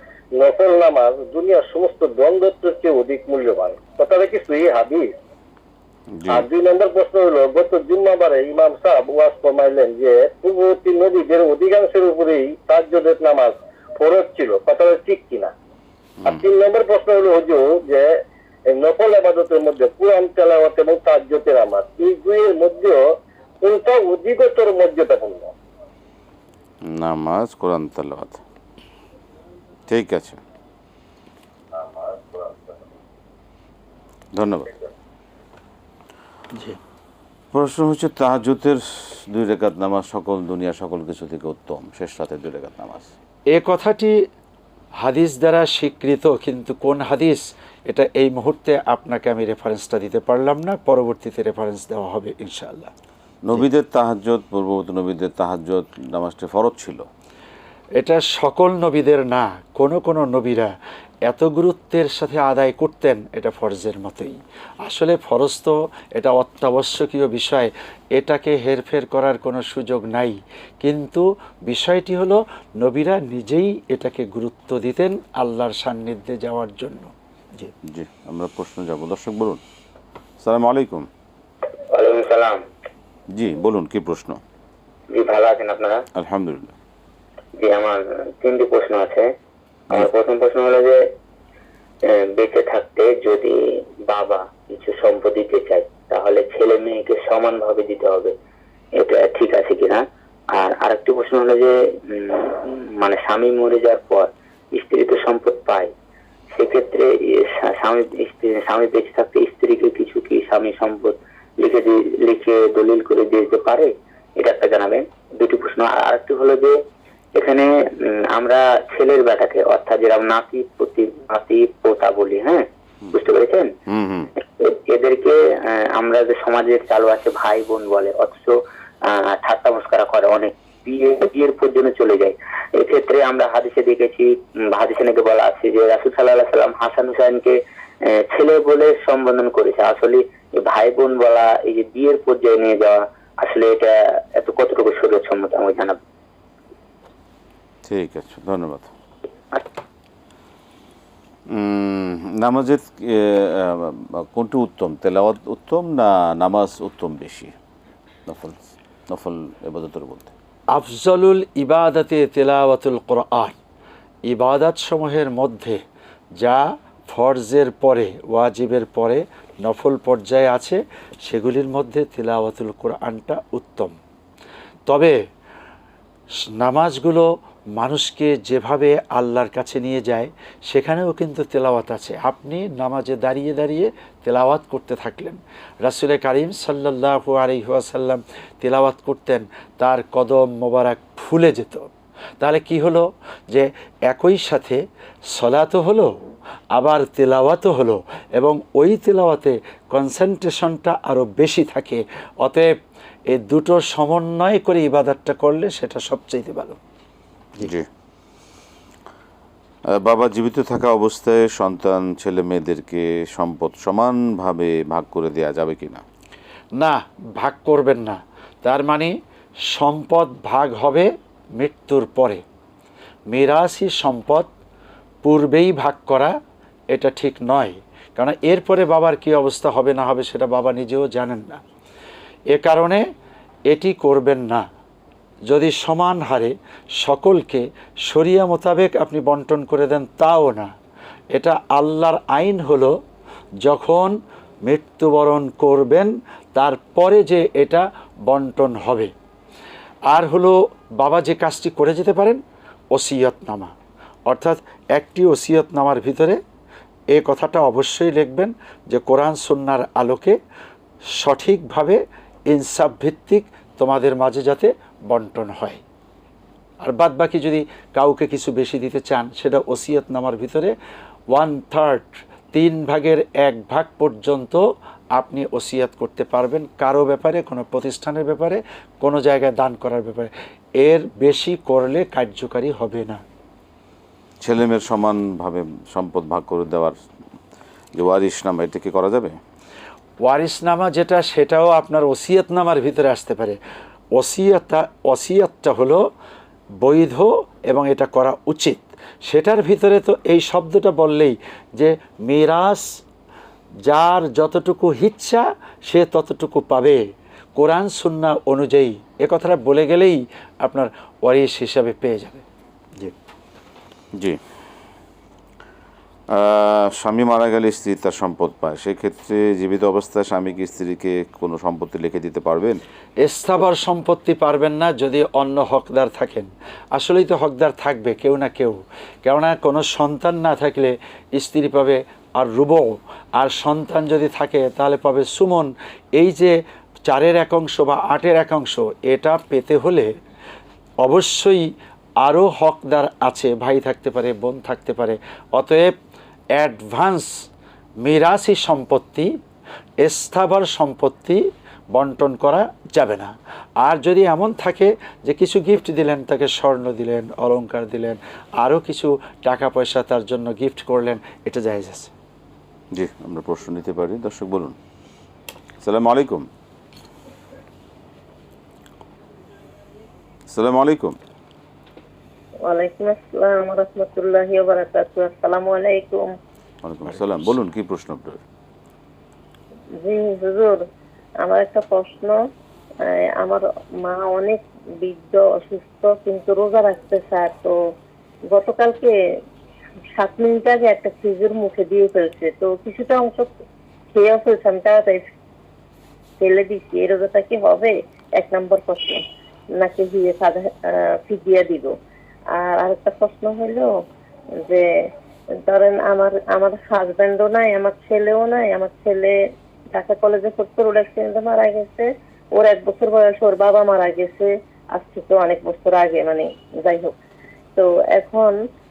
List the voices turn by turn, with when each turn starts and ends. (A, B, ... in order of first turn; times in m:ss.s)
0:00.3-0:05.1 A
0:06.2-0:06.5 B
0:06.3-0:15.5 A
0:16.2-0:18.1 A
0:18.7-0:23.0 A
0:23.6-0:25.5 A
0:26.8-0:28.4 B
0:29.9-0:30.4 B
0:31.9-0:32.4 A
0:34.3-0:34.7 B
0:37.5-0:43.1 B
0:43.5-0:44.2 C
0:45.0-0:52.9 C
0:53.4-0:57.0 B
0:58.0-1:00.7 C
1:01.2-1:17.7 C
1:17.8-1:19.6 B
1:20.4-1:21.1 B
1:21.9-1:22.6 D
1:23.3-1:24.4 B
1:25.1-1:26.0 D
1:26.1-1:26.7 B
1:27.6-1:29.3 D
1:29.9-1:31.1 D
1:32.0-1:38.3 D
1:39.0-1:45.9 D
1:46.5-1:56.7 D
1:57.3-2:03.7 D
2:03.9-2:04.3 B
2:04.6-2:26.0 D
2:27.8-2:28.9 B
2:31.5-2:37.5 B
2:38.3-2:40.3 B
2:40.7-2:43.5 C
2:44.3-2:45.8 C
2:46.4-2:54.0 C
2:54.9-2:55.2 C
2:56.4-3:14.8 C
3:15.3-3:16.1 C
3:16.7-3:22.7 C
3:23.3-3:26.8 C
3:27.6-3:27.9 B
3:29.9-3:36.0 B
3:36.7-3:39.2 C
3:39.7-3:42.4 C
3:43.3-3:44.5 C
3:45.2-3:46.4 C
3:46.9-3:51.6 C
3:52.5-3:53.0 C
3:53.7-3:54.7 C
3:55.5-4:00.7 C
4:01.3-4:03.0 C
4:03.6-4:09.1 C
4:10.1-4:12.4 C
4:12.9-4:13.7 C
4:14.3-4:16.4 C
4:17.1-4:20.4 C
4:21.2-4:25.8 C
4:26.8-4:30.8 C
4:31.3-4:34.6 C
4:35.2-4:43.2 C
4:44.4-4:47.0 B
4:47.9-4:49.4 B
4:50.2-4:53.6 C
4:54.1-4:56.0 C
4:56.8-5:03.0 C
5:03.8-5:07.0 C
5:07.6-5:12.4 C
5:14.1-5:14.4 B
5:16.3-5:22.8 B
5:23.2-5:40.1 C
5:41.0-5:41.7 C
5:42.2-5:46.0 C
5:46.5-5:47.3 C
5:48.0-5:49.3 C
5:50.0-6:02.1 C
6:02.9-6:04.8 B
6:05.8-6:06.5 B
6:10.5-6:11.2 B
6:12.6-6:16.4 E
6:16.8-6:18.4 B
6:20.0-6:20.8 E
6:21.4-6:22.4 E
6:23.0-6:27.7 E
6:28.5-6:29.1 E
6:30.2-6:33.5 E
6:34.1-6:35.3 E
6:36.4-6:39.2 E
6:39.8-6:41.9 E
6:42.5-6:43.9 E
6:44.6-6:49.3 E
6:49.9-6:57.2 E
6:57.8-6:58.5 E